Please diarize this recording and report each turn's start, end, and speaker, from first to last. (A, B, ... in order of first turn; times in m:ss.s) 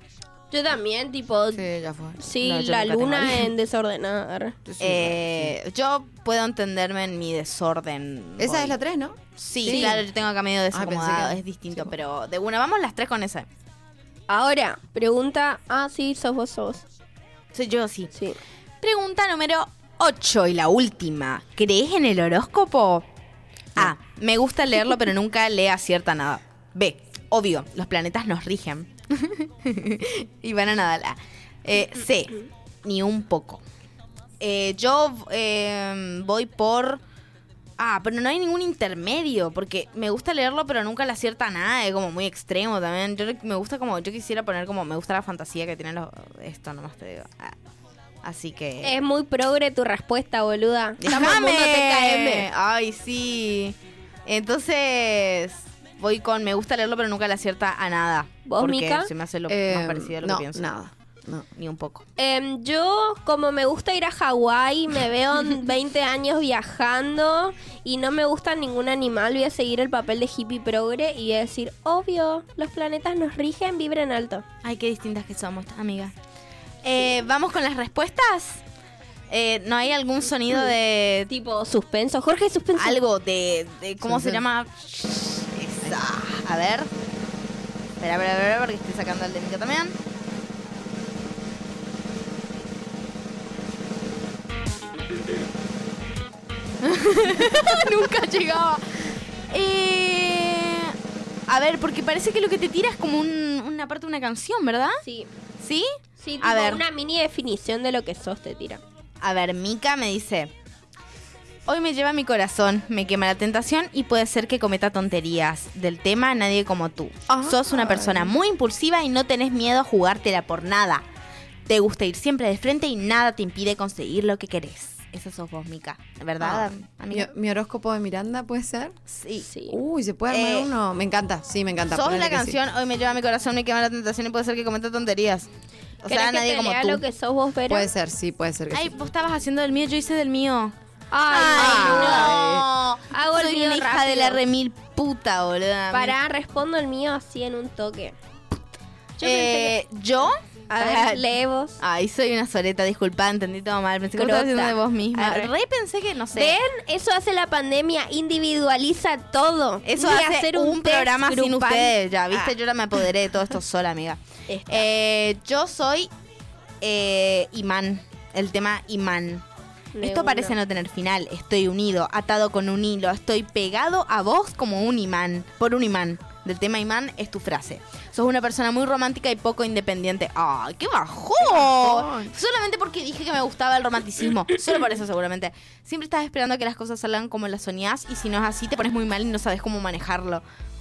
0:00.5-0:04.6 A
0:01.5-0:02.2 B
0:02.4-0:03.5 C
0:04.6-0:05.5 B
0:04.8-0:08.8 C
0:08.4-0:10.0 B
0:09.4-0:13.5 C
0:10.7-0:11.9 B
0:14.3-0:16.8 A
0:17.5-0:18.1 C
0:18.1-0:18.4 A
0:18.8-0:23.1 C
0:23.8-0:33.6 C
0:34.4-0:37.0 C
0:37.8-0:47.6 C
0:48.2-0:49.0 C
0:48.8-0:52.5 A
0:51.0-1:00.7 C
0:58.4-0:59.1 A
0:59.5-1:01.5 B
1:01.6-1:02.0 C
1:02.2-1:14.4 A
1:14.6-1:16.1 C
1:16.8-1:18.6 C
1:19.3-1:21.3 C
1:21.3-1:23.0 A
1:22.8-1:26.9 C
1:24.0-1:24.4 B
1:28.0-1:30.0 C
1:36.8-1:41.0 C
1:41.5-1:45.0 C
1:45.0-1:45.3 A
1:45.6-1:45.9 C
1:46.2-1:48.8 A
1:46.4-1:46.8 C
1:49.2-1:50.5 C
1:51.7-2:01.0 C
1:57.3-1:58.3 B
2:01.7-2:07.3 C
2:06.4-2:09.0 B
2:09.1-2:09.5 C
2:09.4-2:09.8 A
2:09.7-2:12.6 B
2:10.3-2:10.7 C
2:11.9-2:15.5 C
2:16.0-2:17.0 C
2:16.1-2:17.9 A
2:17.7-2:19.0 B
2:18.7-2:20.7 C
2:21.1-2:22.4 A
2:21.3-2:26.2 C
2:21.6-2:22.7 B
2:23.1-2:24.4 A
2:25.9-2:28.2 A
2:29.2-2:29.8 A
2:29.2-2:36.6 C
2:30.7-2:31.8 A
2:34.2-2:35.5 A
2:36.3-2:42.6 A
2:39.8-2:46.1 C
2:44.5-2:44.9 A
2:46.8-2:49.4 C
2:50.0-2:50.6 A
2:50.0-3:10.4 C
3:01.4-3:02.3 B